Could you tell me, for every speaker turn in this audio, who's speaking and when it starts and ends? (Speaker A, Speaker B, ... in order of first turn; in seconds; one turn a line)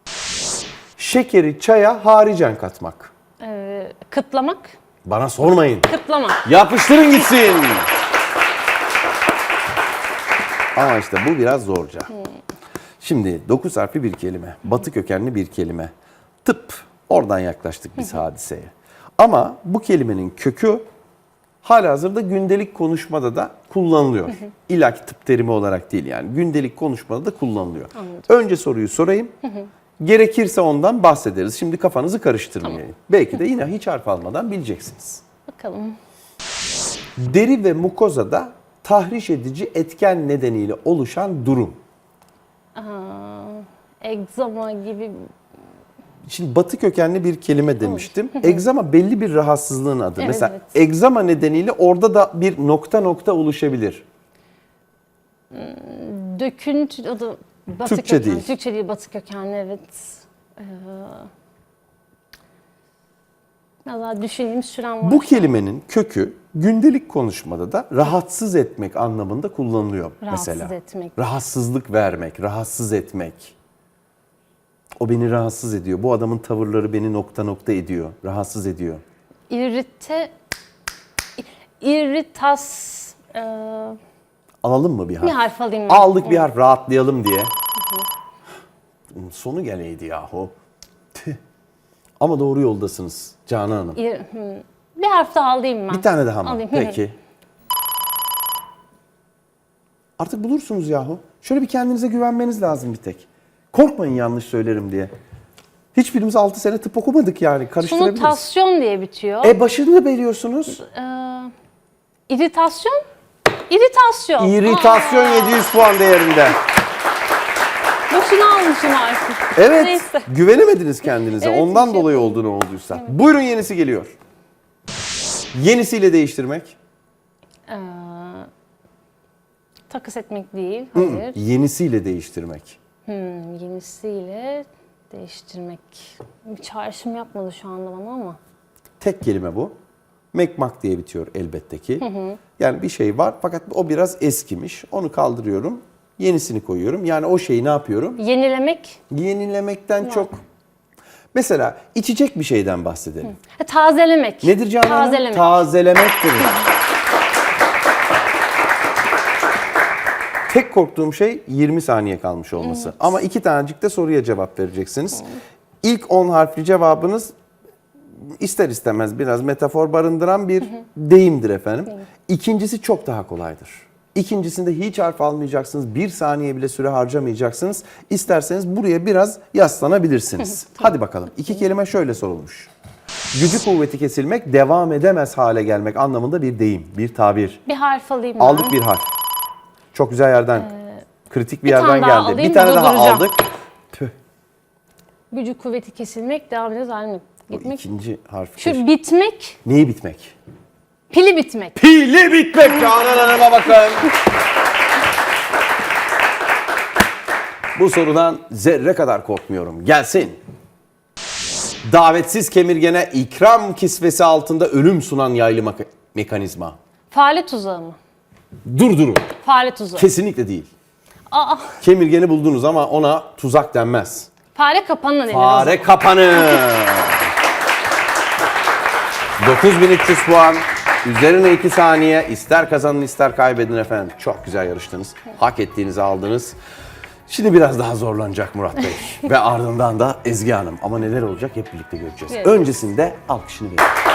Speaker A: 1.0-3.1
Speaker B: 3.4-4.7
Speaker A: 5.0-5.9
Speaker B: 5.9-6.4
Speaker A: 6.4-7.9
Speaker A: 10.8-12.1
Speaker A: 13.0-15.9
Speaker A: 16.4-20.8
Speaker A: 21.6-29.3
Speaker B: 28.0-28.3
Speaker A: 30.0-35.2
Speaker B: 35.5-36.0
Speaker A: 37.2-41.8
Speaker B: 42.8-45.3
Speaker A: 46.3-54.0
Speaker B: 47.8-48.7
Speaker B: 50.2-50.8
Speaker B: 55.5-61.3
Speaker A: 57.9-58.5
Speaker B: 63.9-65.5
Speaker A: 65.0-73.5
Speaker B: 70.2-71.2
Speaker A: 75.0-79.0
Speaker B: 79.5-80.3
Speaker B: 81.4-84.0
Speaker A: 84.6-87.5
Speaker B: 85.2-86.5
Speaker A: 89.1-90.5
Speaker A: 91.1-91.4
Speaker A: 92.2-94.0
Speaker B: 94.0-97.0
Speaker A: 95.9-97.2
Speaker A: 100.2-105.1
Speaker A: 105.9-108.4
Speaker B: 107.8-109.6
Speaker A: 109.4-110.8
Speaker B: 110.8-111.5
Speaker B: 112.3-113.0
Speaker B: 113.5-115.6
Speaker A: 114.4-116.6
Speaker B: 118.1-120.3
Speaker A: 119.5-124.1
Speaker B: 121.4-123.2
Speaker A: 125.5-126.8
Speaker B: 127.7-128.5
Speaker B: 129.9-131.4
Speaker A: 130.9-132.8
Speaker B: 133.1-138.4
Speaker A: 139.0-139.7
Speaker A: 140.3-142.1
Speaker B: 142.0-142.4
Speaker A: 142.6-148.2
Speaker B: 148.2-149.0
Speaker A: 149.1-150.4
Speaker A: 151.3-153.4
Speaker B: 153.4-155.6
Speaker A: 154.4-156.6
Speaker A: 160.5-165.3
Speaker B: 162.6-163.0
Speaker A: 165.8-167.3
Speaker A: 168.2-182.7
Speaker A: 183.3-187.6
Speaker B: 187.7-188.8
Speaker A: 188.4-189.1
Speaker A: 189.9-190.7
Speaker B: 190.7-191.0
Speaker A: 191.3-194.1
Speaker B: 191.7-193.3
Speaker B: 195.3-197.8
Speaker A: 197.5-198.8
Speaker B: 198.6-199.6
Speaker A: 199.6-200.3
Speaker B: 201.1-201.8
Speaker A: 201.8-204.1
Speaker A: 207.8-210.4
Speaker A: 211.8-216.8
Speaker B: 217.1-218.0
Speaker A: 218.7-219.3
Speaker B: 219.4-220.1
Speaker A: 220.0-220.7
Speaker B: 221.3-221.8
Speaker A: 221.8-224.3
Speaker B: 224.5-225.8
Speaker A: 225.3-227.3
Speaker A: 229.4-236.6
Speaker A: 237.3-243.9
Speaker B: 242.3-242.8